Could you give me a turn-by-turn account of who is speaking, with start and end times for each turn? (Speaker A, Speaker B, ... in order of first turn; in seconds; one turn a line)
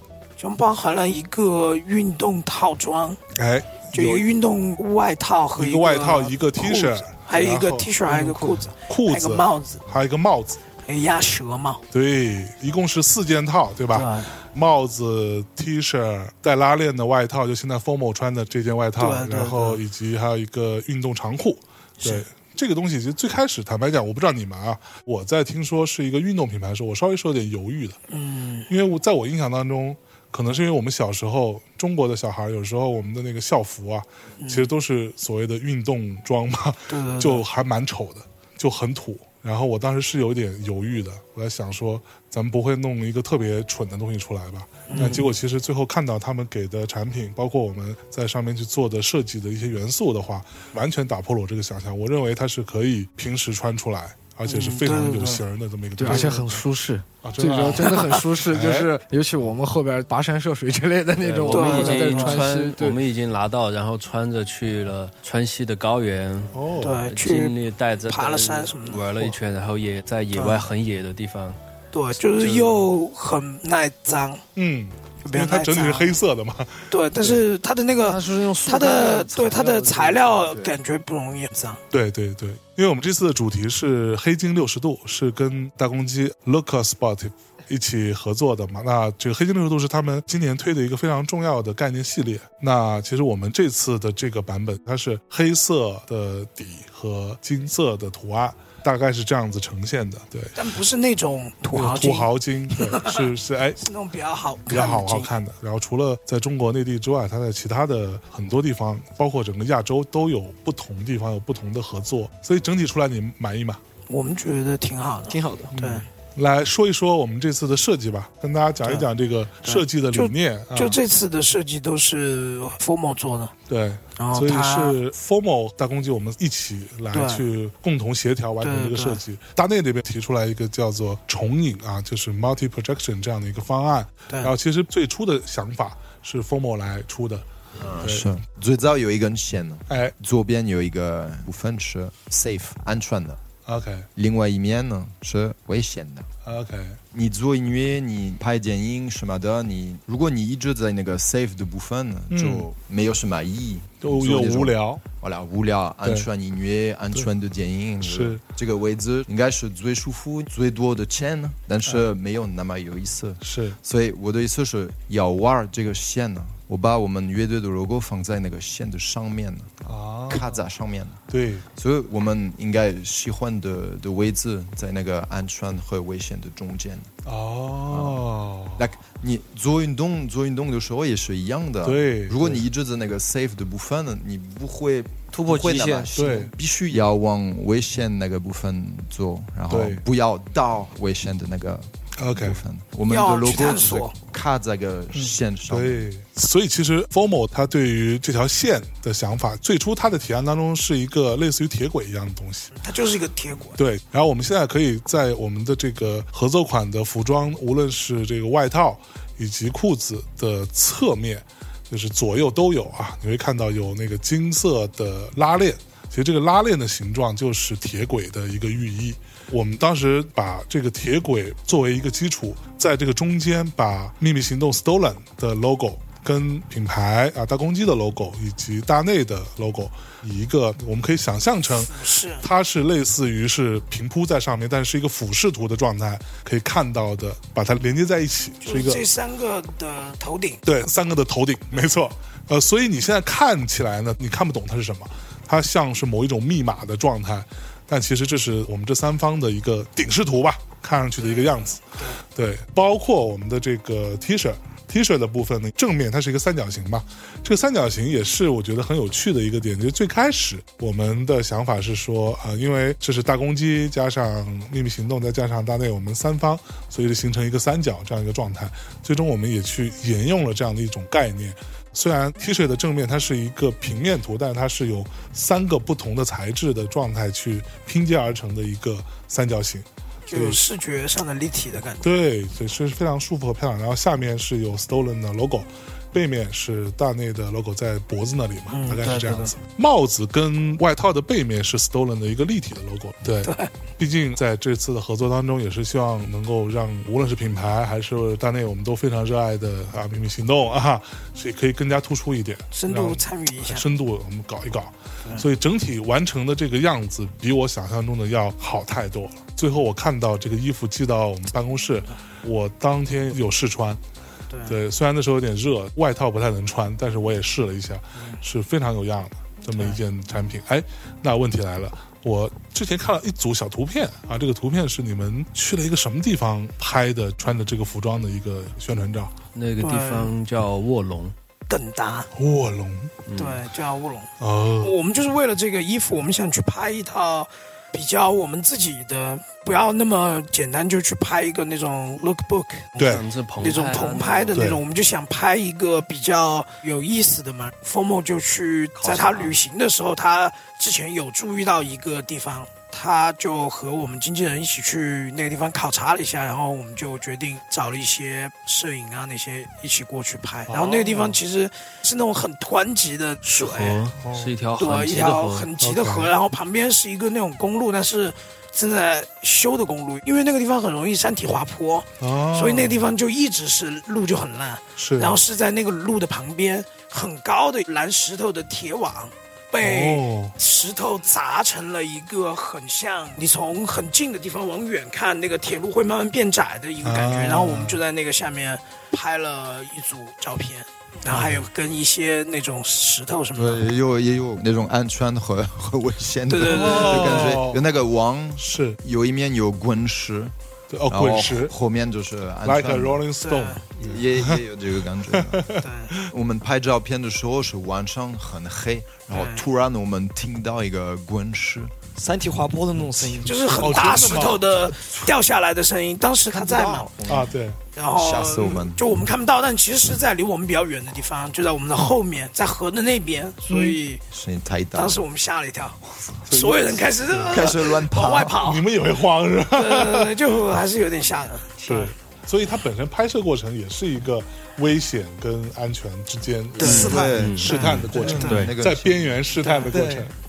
Speaker A: 0.4-3.2
Speaker B: 3.3-4.2
Speaker A: 3.9-9.8
Speaker B: 5.5-10.6
Speaker A: 10.8-11.8
Speaker B: 11.9-28.0
Speaker A: 13.9-14.3
Speaker A: 19.0-19.8
Speaker A: 28.1-28.7
Speaker B: 28.7-56.6
Speaker A: 34.4-34.7
Speaker A: 36.9-37.4
Speaker A: 44.9-45.3
Speaker A: 54.5-55.4
Speaker C: 56.0-63.0
Speaker B: 57.2-58.9
Speaker D: 61.2-71.6
Speaker A: 61.5-62.4
Speaker B: 66.5-67.0
Speaker A: 66.8-67.5
Speaker A: 68.1-69.3
Speaker A: 70.3-70.6
Speaker A: 71.9-74.4
Speaker D: 72.4-72.8
Speaker B: 74.5-77.4
Speaker A: 75.2-76.1
Speaker A: 76.9-81.8
Speaker C: 78.0-80.7
Speaker B: 81.9-100.6
Speaker A: 100.5-103.3
Speaker B: 101.7-103.8
Speaker A: 103.8-105.3
Speaker B: 104.7-113.8
Speaker A: 114.1-116.0
Speaker E: 115.3-115.7
Speaker B: 115.7-121.0
Speaker A: 119.6-123.5
Speaker B: 123.7-137.4
Speaker A: 124.2-125.0
Speaker A: 127.1-127.4
Speaker A: 128.6-129.2
Speaker F: 137.8-143.4
Speaker B: 138.0-138.4
Speaker B: 139.9-140.1
Speaker B: 143.7-144.1
Speaker F: 144.2-146.3
Speaker B: 146.4-147.0
Speaker F: 147.1-171.2
Speaker B: 152.3-152.7
Speaker B: 154.0-155.0
Speaker B: 158.0-158.4
Speaker B: 163.4-163.8
Speaker B: 169.8-170.6
Speaker B: 171.3-171.6
Speaker F: 171.8-177.1
Speaker B: 177.2-178.8
Speaker F: 177.9-196.1
Speaker B: 181.8-182.6
Speaker E: 185.3-186.1
Speaker B: 186.2-186.5
Speaker B: 189.7-190.0
Speaker B: 192.2-192.6
Speaker A: 193.1-194.1
Speaker B: 195.1-202.7
Speaker A: 202.8-203.8
Speaker B: 203.8-239.1
Speaker A: 231.7-232.4
Speaker A: 238.6-240.6
Speaker B: 240.6-251.8
Speaker A: 251.2-252.2
Speaker B: 252.3-280.6
Speaker A: 280.3-282.1
Speaker B: 282.0-314.0
Speaker A: 288.7-289.5
Speaker A: 293.4-293.7
Speaker A: 302.7-303.8
Speaker A: 314.5-314.8
Speaker B: 314.7-329.3
Speaker D: 329.5-331.3
Speaker A: 329.8-330.3
Speaker A: 331.7-332.3
Speaker B: 332.3-333.1
Speaker D: 333.2-333.6
Speaker A: 333.4-334.3
Speaker B: 334.4-334.9
Speaker A: 334.8-364.0
Speaker B: 343.0-343.2
Speaker D: 343.0-344.6
Speaker B: 344.5-344.8
Speaker F: 348.9-349.6
Speaker B: 360.7-361.4
Speaker D: 363.6-365.7
Speaker B: 364.2-364.5
Speaker A: 364.8-393.8
Speaker B: 365.8-366.3
Speaker B: 372.2-373.1
Speaker B: 375.0-375.4
Speaker B: 379.8-380.6
Speaker B: 387.0-388.0
Speaker B: 391.3-391.7
Speaker F: 393.5-400.5
Speaker A: 396.5-397.6
Speaker B: 396.6-397.8
Speaker B: 398.6-399.0
Speaker B: 400.9-401.7
Speaker F: 401.1-403.2
Speaker B: 402.6-404.6
Speaker A: 403.4-403.8
Speaker F: 404.0-405.7
Speaker B: 405.3-406.3
Speaker A: 405.8-406.1
Speaker F: 406.2-411.9
Speaker A: 409.3-409.6
Speaker E: 412.1-414.5
Speaker A: 413.4-417.1
Speaker B: 413.7-414.6
Speaker F: 416.6-417.5
Speaker B: 417.3-417.8
Speaker A: 417.9-424.2
Speaker F: 418.1-419.1
Speaker B: 423.7-424.0
Speaker F: 424.3-425.2
Speaker A: 424.9-426.0
Speaker F: 426.1-426.4
Speaker B: 426.5-427.8
Speaker A: 426.5-428.8
Speaker F: 427.4-428.6
Speaker B: 428.6-430.3
Speaker A: 429.7-432.1
Speaker B: 431.8-440.3
Speaker F: 436.7-439.6
Speaker A: 436.8-438.7
Speaker D: 436.8-438.7
Speaker E: 439.8-440.3